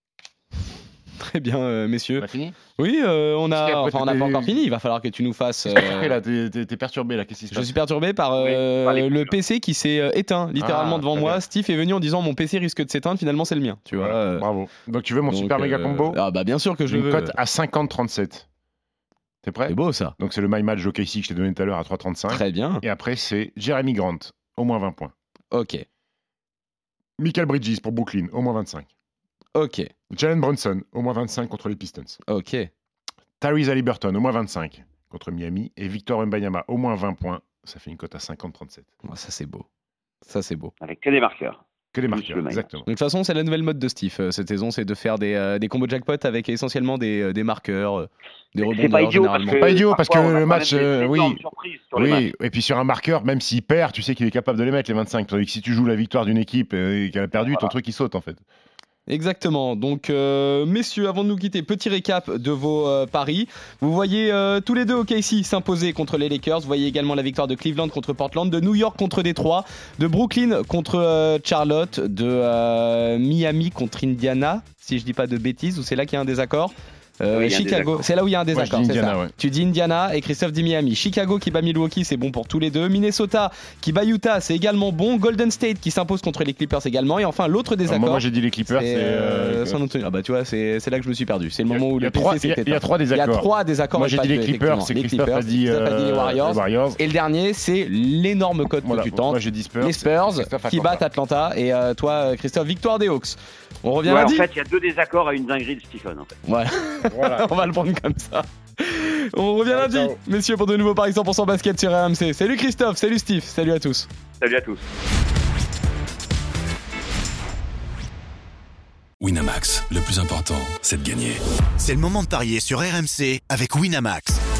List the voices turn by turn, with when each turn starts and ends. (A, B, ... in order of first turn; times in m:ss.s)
0:01.2-0:06.2 A
0:02.2-0:02.6 B
0:03.5-0:04.6 B
0:05.7-0:07.7 B
0:07.5-0:14.4 A
0:08.4-0:09.3 C
0:10.6-0:11.4 B
0:14.0-0:16.2 B
0:15.3-0:17.4 A
0:16.9-0:18.4 B
0:19.4-0:25.1 B
0:19.7-0:20.1 A
0:22.3-0:22.8 A
0:25.5-0:25.8 A
0:27.2-0:28.9 B
0:29.5-0:29.9 A
0:30.1-0:32.2 B
0:32.3-0:32.7 A
0:33.4-0:38.9 B
0:39.0-0:39.6 A
0:40.2-0:40.7 A
0:40.8-0:42.7 C
0:41.9-0:42.9 B
0:42.8-0:49.7 A
0:48.6-0:52.3 C
0:49.5-0:51.4 B
0:51.9-0:58.4 B
0:57.3-0:57.7 C
0:59.1-1:44.4 A
1:17.3-1:18.0 C
1:18.5-1:19.3 B
1:27.8-1:29.8 B
1:31.7-1:37.0 B
1:38.8-1:41.0 B
1:44.0-1:46.3 C
1:46.4-1:54.1 A
1:47.1-1:47.7 B
1:49.6-1:50.2 B
1:54.4-1:54.8 C
1:59.2-2:01.4 D
2:01.8-2:04.4 E